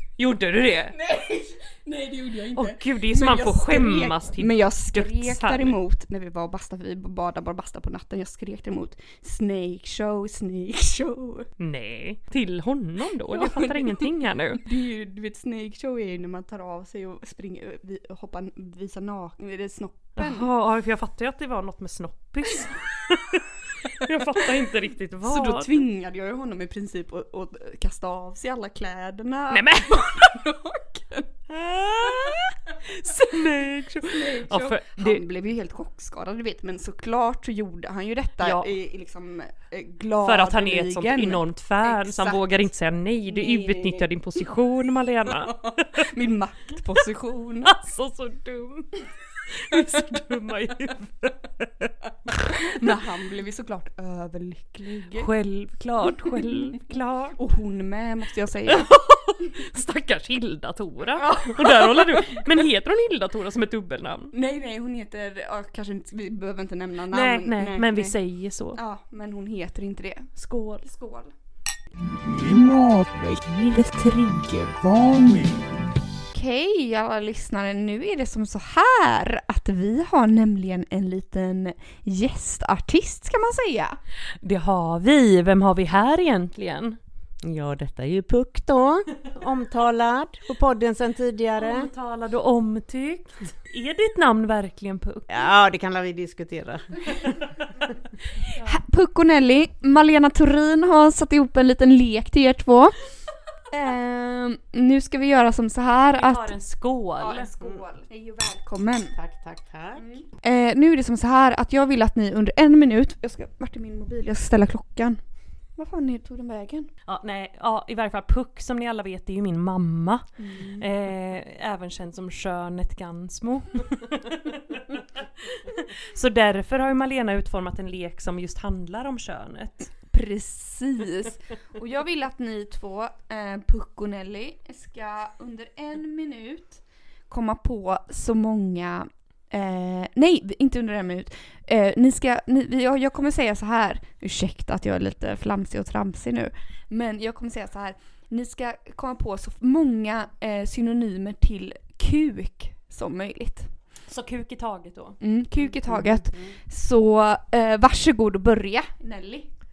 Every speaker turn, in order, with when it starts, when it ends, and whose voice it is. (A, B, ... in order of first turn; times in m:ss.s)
0:00.2-0:01.0 A
0:00.9-0:11.5 B
0:02.6-0:05.8 A
0:11.6-0:14.6 A
0:13.3-0:20.5 B
0:20.2-0:25.8 A
0:25.2-0:31.3 B
0:29.5-0:30.3 A
0:31.5-0:35.2 A
0:34.1-0:42.4 B
0:38.4-0:38.7 A
0:40.2-0:46.1 A
0:43.3-0:44.1 B
0:45.5-0:47.8 B
0:47.6-0:52.8 A
0:52.5-0:55.3 B
0:55.2-0:57.4 A
0:56.2-0:56.6 B
0:57.4-0:58.9 B
0:58.7-1:04.3 A
1:01.1-1:02.5 B
1:04.3-1:08.2 B
1:07.1-1:08.8 A
1:08.7-1:10.3 B
1:10.4-1:10.9 A
1:10.8-1:11.3 B
1:13.4-1:14.5 A
1:16.3-1:24.0 B
1:24.4-1:27.0 A
1:27.4-1:31.9 C
1:31.6-1:35.3 A
1:35.3-1:38.0 C
1:38.6-1:38.8 A
1:38.6-1:43.0 B
1:43.7-1:46.6 B
1:46.1-1:47.5 A
1:47.2-1:49.2 B
1:49.2-1:50.1 C
1:50.0-1:55.2 B
1:55.8-1:56.9 B
1:57.1-2:09.9 A
2:00.4-2:00.9 B
2:10.1-2:33.7 B
2:34.1-2:35.2 A
2:35.2-2:39.5 B
2:35.9-2:36.5 C